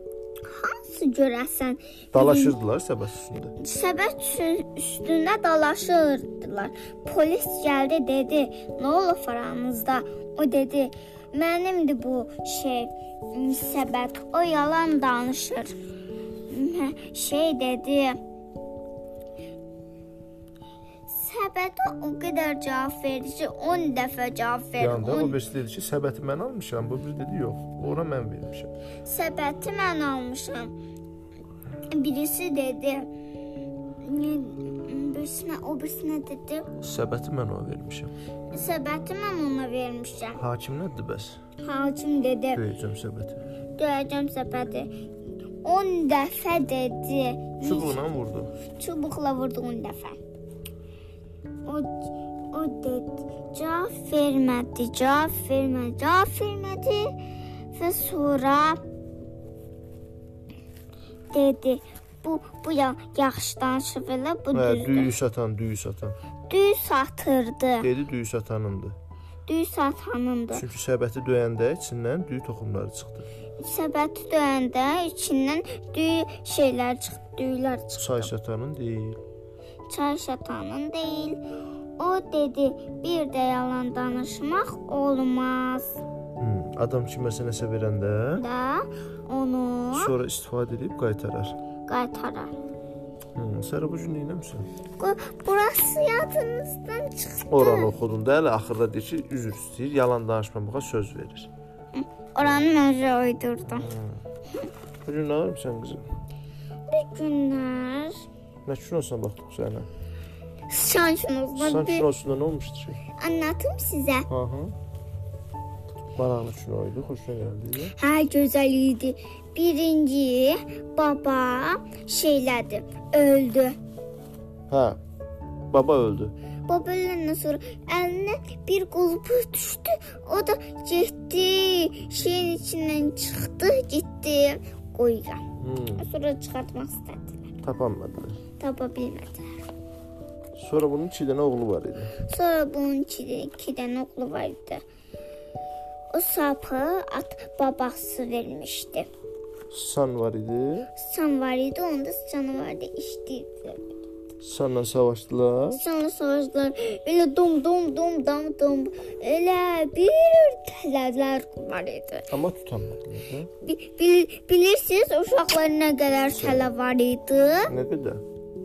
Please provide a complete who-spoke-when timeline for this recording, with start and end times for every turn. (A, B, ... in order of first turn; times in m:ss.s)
0:00.4-0:02.6 A
0:02.1-0:03.6 B
0:03.6-0:15.7 A
0:16.5-0:18.2 A
0:21.1-0:25.4 A
0:24.8-0:28.7 B
0:29.0-0:30.7 A
0:31.9-0:33.1 A
0:34.0-0:36.7 A
0:36.8-0:38.1 B
0:38.5-0:40.4 A
0:40.4-0:41.4 B
0:41.6-0:42.6 A
0:42.5-0:43.4 B
0:43.8-0:44.9 A
0:45.6-0:48.0 A
0:47.6-0:48.5 B
0:48.6-0:50.2 A
0:51.6-0:57.2 A
0:57.7-0:58.8 A
1:01.3-1:05.2 A
1:04.5-1:06.2 B
1:06.5-1:07.9 A
1:07.8-1:09.0 B
1:09.5-1:10.7 A
1:10.5-1:13.3 B
1:13.6-1:18.3 A
1:18.0-1:19.2 B
1:19.9-1:21.4 A
1:22.0-1:26.0 A
1:26.4-1:28.4 B
1:28.4-1:30.1 A
1:29.9-1:31.6 B
1:31.9-1:32.5 A
1:33.4-1:34.7 B
1:35.0-1:37.9 A
1:37.5-1:41.5 B
1:41.9-1:43.9 A
1:43.7-1:44.2 B
1:45.1-1:46.1 B
1:46.9-1:48.2 A
1:48.6-1:49.9 B
1:50.7-1:52.1 A
1:51.6-1:53.0 B
1:53.2-1:54.3 A
1:54.3-1:54.7 B
1:56.2-1:58.0 B
1:58.0-2:03.8 A
2:04.7-2:05.0 B
2:05.7-2:06.3 B
2:06.7-2:15.4 A
2:15.6-2:16.0 B
2:16.0-2:17.5 A
2:17.6-2:18.4 B
2:18.6-2:19.6 A
2:20.6-2:22.1 B
2:22.2-2:24.8 A
2:26.1-2:29.1 A
2:29.7-2:30.9 B
2:31.0-2:34.0 A
2:34.4-2:35.8 B
2:35.7-2:42.3 A
2:42.3-2:43.5 B
2:43.6-2:47.7 A
2:46.3-2:46.7 B
2:47.7-2:48.2 B